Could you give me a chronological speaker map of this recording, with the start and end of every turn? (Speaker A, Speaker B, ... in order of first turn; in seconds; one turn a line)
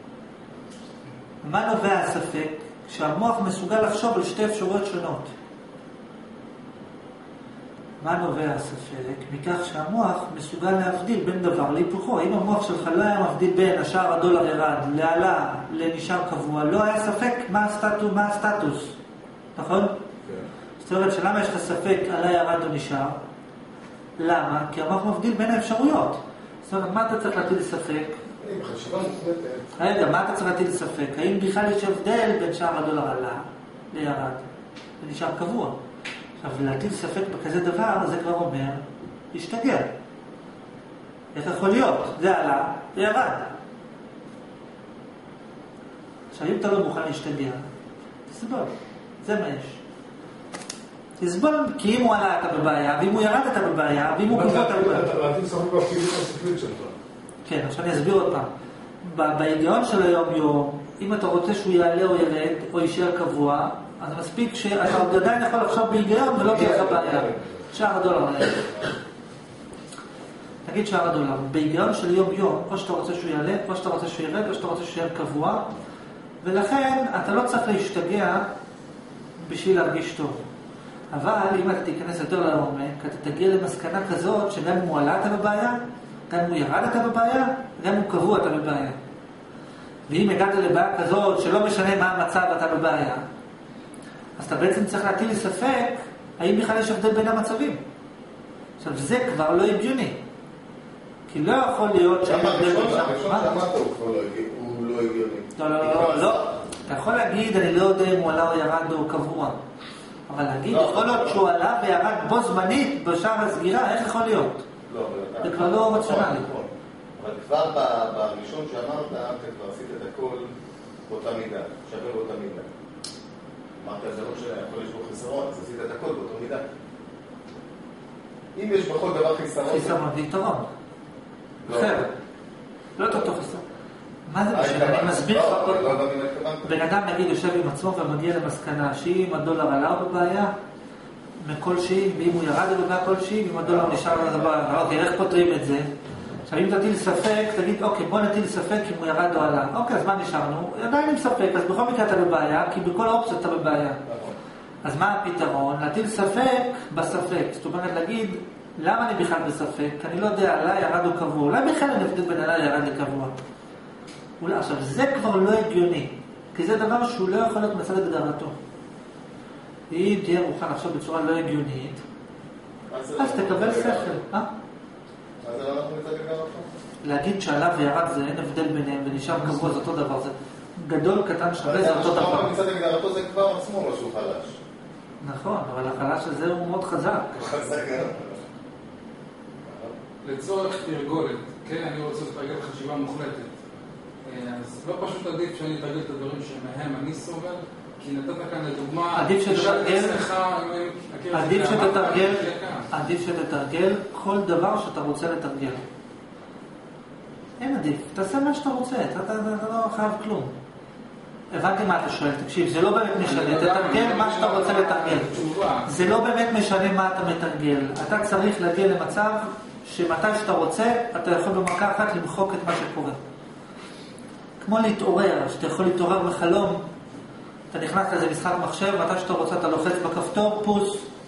Speaker A: 1.4-5.3
Speaker A: 8.0-18.9
Speaker A: 19.6-19.9
Speaker A: 20.8-23.2
Speaker A: 24.2-28.2
Speaker B: 28.4-29.7
Speaker A: 29.8-34.4
Speaker A: 35.0-35.8
Speaker A: 36.4-39.9
Speaker A: 41.3-43.5
Speaker A: 46.3-47.6
Speaker A: 48.3-48.7
Speaker A: 49.2-49.8
Speaker A: 51.2-55.1
Speaker C: 54.3-57.0
Speaker A: 57.5-58.5
Speaker A: 59.0-68.9
Speaker C: 66.3-67.5
Speaker A: 70.7-75.7
Speaker A: 76.4-78.5
Speaker A: 79.4-80.4
Speaker A: 81.1-89.0
Speaker A: 90.1-93.2
Speaker A: 94.4-97.8
Speaker A: 98.8-100.2
Speaker A: 101.3-103.5
Speaker B: 102.2-106.5
Speaker A: 105.6-109.6
Speaker A: 110.3-114.6
Speaker B: 110.7-111.4
Speaker B: 114.9-120.5
Speaker A: 115.4-116.5
Speaker B: 121.1-122.7
Speaker B: 123.8-126.6
Speaker B: 128.5-130.0
Speaker A: 129.7-130.7
Speaker B: 131.7-131.9
Speaker A: 131.7-132.1
Speaker A: 133.0-133.6
Speaker A: 134.3-136.0
Speaker B: 134.5-136.8
Speaker A: 136.6-140.5
Speaker A: 141.4-145.9
Speaker B: 143.6-144.6
Speaker A: 146.5-154.0
Speaker A: 154.8-163.3
Speaker A: 164.4-168.6
Speaker A: 169.9-172.0
Speaker B: 172.9-174.1
Speaker A: 173.2-174.5
Speaker B: 175.4-176.7
Speaker A: 177.0-182.5
Speaker B: 181.6-184.6
Speaker A: 185.2-187.6
Speaker B: 187.3-188.4
Speaker B: 189.7-189.9
Speaker D: 190.2-193.5
Speaker D: 194.2-202.9
Speaker A: 199.2-200.2
Speaker A: 201.3-205.8
Speaker A: 207.6-210.5
Speaker A: 211.5-215.3
Speaker D: 213.2-216.0
Speaker A: 215.8-223.2
Speaker A: 224.6-226.9
Speaker A: 227.7-231.1